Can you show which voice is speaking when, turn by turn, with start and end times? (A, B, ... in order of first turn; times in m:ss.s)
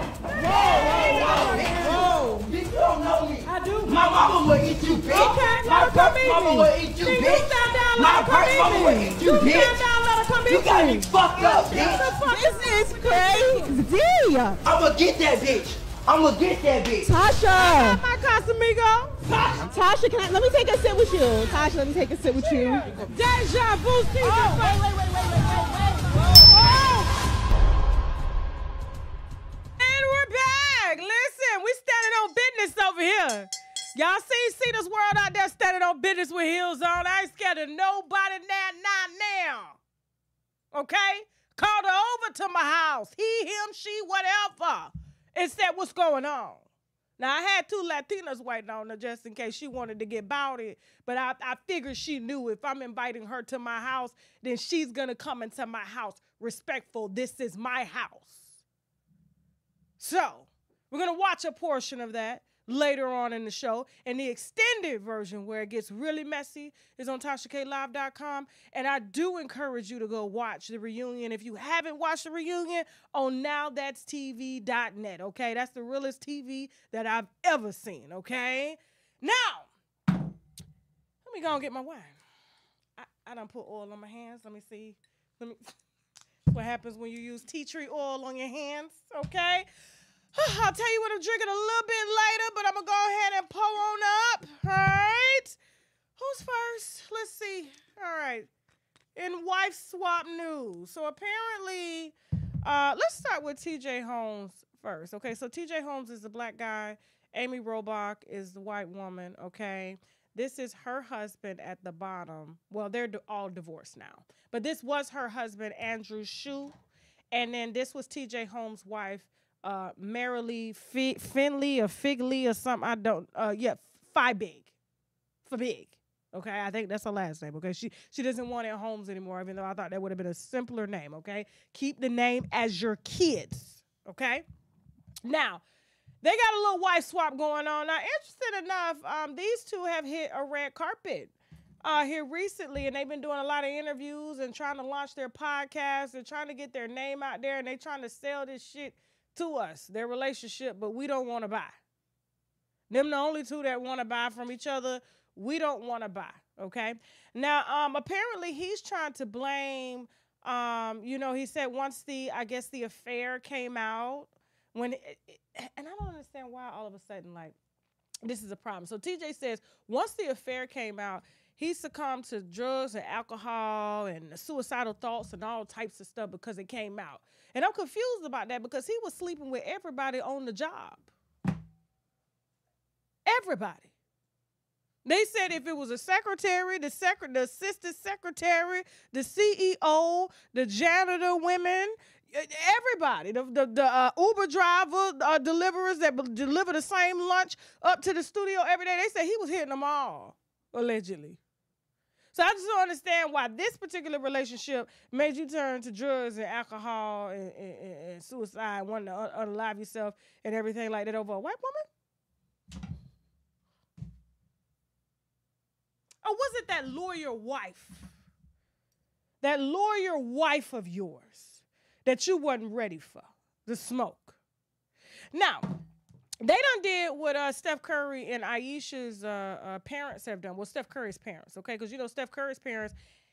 0:00.4-0:02.0 A
0:00.4-0:09.8 B
0:03.4-0:04.4 A
0:05.1-0:13.7 A
0:10.5-0:12.1 B
0:11.8-0:14.6 C
0:14.6-0:17.1 B
0:17.0-0:18.0 C
0:17.6-0:19.2 A
0:19.3-0:19.6 B
0:19.7-0:22.9 C
0:23.1-0:27.1 A
0:29.8-0:39.8 A
0:40.7-0:46.7 A
0:47.2-0:58.5 A
1:00.0-1:19.7 A
1:21.2-1:22.2 A
1:23.0-1:25.7 A
1:26.5-1:29.7 A
1:30.4-1:35.6 A
1:36.2-1:38.5 A
1:39.2-1:56.7 A
1:57.3-2:04.7 A
2:05.5-2:14.4 A
2:15.2-2:15.6 A
2:16.2-2:31.8 A
2:32.9-2:47.6 A
2:48.2-3:01.1 A
3:03.3-3:03.9 A
3:05.0-3:21.4 A
3:22.3-3:31.8 A
3:36.2-3:38.1 A
3:39.4-3:44.4 A
3:45.3-3:45.6 A
3:46.4-3:52.9 A